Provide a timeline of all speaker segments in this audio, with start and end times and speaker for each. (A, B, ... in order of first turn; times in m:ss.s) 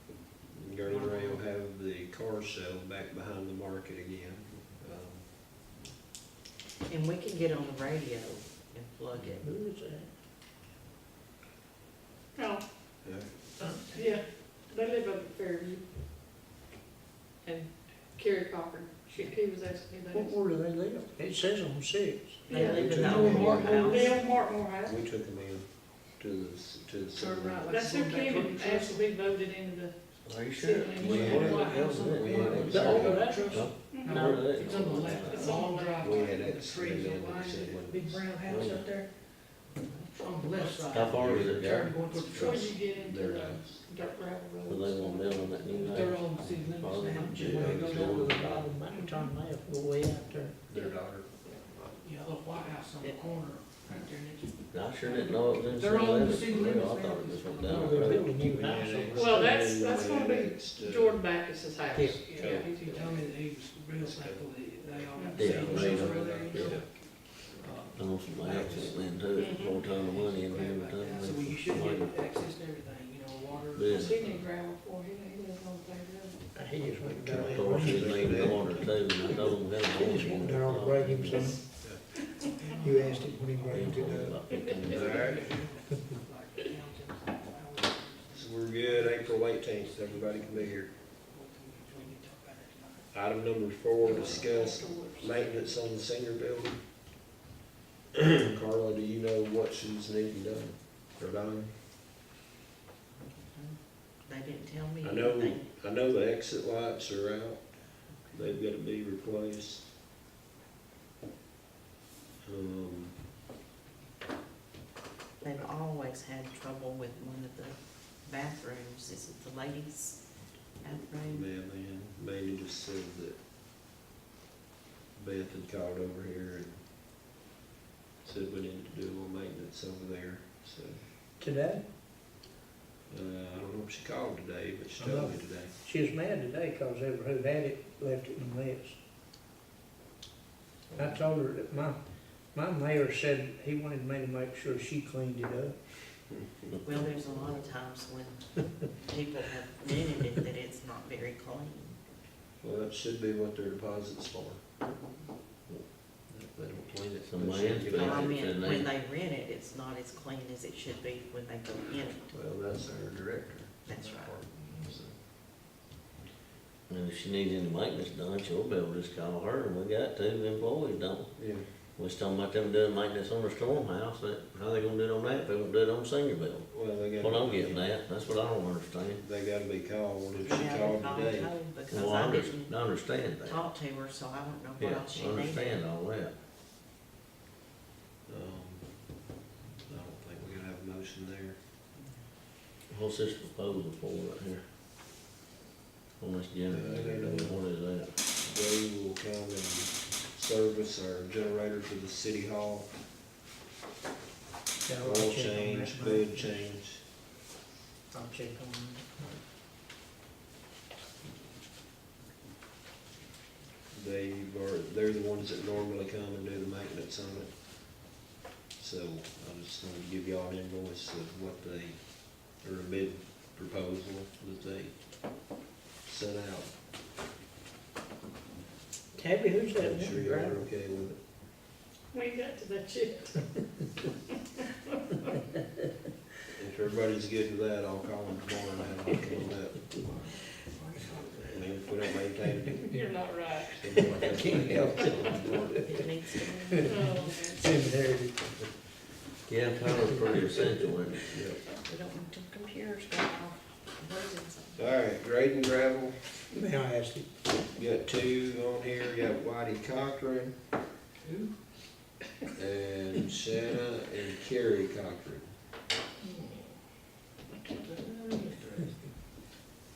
0:00.5-0:05.3 A
0:00.9-0:01.4 B
0:06.8-0:09.5 C
0:09.1-0:09.4 A
0:09.4-0:10.1 D
0:12.4-0:12.6 E
0:13.0-0:13.3 A
0:13.9-0:15.8 E
0:17.4-0:20.4 E
0:20.1-0:22.4 D
0:22.5-0:24.2 C
0:22.5-0:25.0 E
0:22.5-0:24.2 A
0:22.9-0:24.0 B
0:24.8-0:27.7 A
0:27.1-0:29.0 B
0:27.7-0:29.9 E
0:30.2-0:32.9 F
0:30.6-0:32.5 E
0:30.6-0:39.2 B
0:31.0-0:33.3 A
0:32.7-0:33.5 D
0:33.4-0:35.6 F
0:33.9-0:36.4 E
0:36.0-0:38.3 A
0:38.4-0:38.8 F
0:39.7-0:40.7 C
0:40.1-0:42.7 B
0:40.9-0:41.9 F
0:41.1-0:43.9 A
0:42.0-0:46.1 E
0:44.7-0:48.7 F
0:45.9-0:48.2 B
0:47.2-0:48.1 A
0:47.4-0:50.6 D
0:48.9-0:49.3 E
0:50.7-0:52.0 A
0:52.0-0:58.2 B
0:54.7-0:58.3 F
0:57.7-0:59.5 D
0:58.4-1:01.2 A
0:59.1-1:03.2 E
1:01.9-1:02.2 D
1:02.2-1:09.0 B
1:02.3-1:02.7 A
1:04.0-1:04.6 A
1:05.1-1:06.6 E
1:05.4-1:06.8 F
1:05.4-1:07.6 A
1:07.9-1:12.1 F
1:09.3-1:09.9 E
1:09.9-1:14.2 B
1:13.7-1:14.4 F
1:13.9-1:16.4 E
1:16.6-1:18.8 D
1:17.0-1:18.9 A
1:17.4-1:21.6 F
1:20.0-1:21.8 D
1:21.3-1:21.6 E
1:21.7-1:22.0 A
1:22.4-1:33.1 B
1:22.8-1:24.4 D
1:23.7-1:25.1 F
1:24.5-1:25.2 E
1:24.8-1:25.5 A
1:28.3-1:30.9 A
1:33.1-1:36.8 A
1:34.0-1:35.7 E
1:34.0-1:34.9 B
1:38.1-1:41.8 A
1:43.2-1:45.7 C
1:45.0-1:49.9 A
1:52.4-1:53.2 A
1:55.4-2:00.2 C
2:00.8-2:01.5 C
2:01.2-2:03.4 A
2:05.1-2:06.8 A
2:08.2-2:11.0 A
2:11.4-2:11.8 D
2:13.1-2:15.7 A
2:15.0-2:19.0 D
2:20.9-2:21.2 A
2:21.0-2:22.0 D
2:22.5-2:25.8 D
2:26.8-2:32.0 C
2:32.6-2:34.6 A
2:36.3-2:38.4 A
2:37.2-2:38.9 F
2:37.9-2:42.2 C
2:42.3-2:45.2 A
2:43.8-2:44.3 C
2:46.9-2:51.3 F
2:51.4-2:51.7 A
2:52.0-2:59.2 F
2:56.7-2:57.9 A
2:59.2-3:01.7 A
3:00.4-3:05.9 C
3:01.9-3:03.6 F
3:04.8-3:06.3 F
3:08.2-3:09.3 A
3:09.8-3:11.6 A
3:12.9-3:14.6 F
3:16.2-3:18.2 F
3:16.7-3:17.8 A
3:18.4-3:22.9 A
3:24.8-3:26.6 D
3:25.0-3:27.0 A
3:28.1-3:29.4 D
3:33.9-3:38.2 A
3:38.8-3:46.7 A
3:49.1-3:50.6 D
3:49.8-3:51.2 A
3:52.1-3:53.5 E
3:56.5-3:59.9 A
4:00.0-4:01.6 B
4:01.4-4:02.9 A
4:02.8-4:04.0 E
4:03.7-4:05.8 A
4:04.2-4:05.9 D
4:05.3-4:07.9 C
4:06.8-4:08.5 D
4:06.8-4:07.5 E
4:09.5-4:11.3 F
4:09.9-4:10.8 D
4:11.3-4:11.6 A
4:11.6-4:14.8 C
4:14.8-4:16.5 A
4:16.5-4:17.3 D
4:17.7-4:20.6 A
4:21.2-4:21.5 B
4:22.5-4:25.5 A
4:26.2-4:26.8 B
4:27.6-4:28.9 B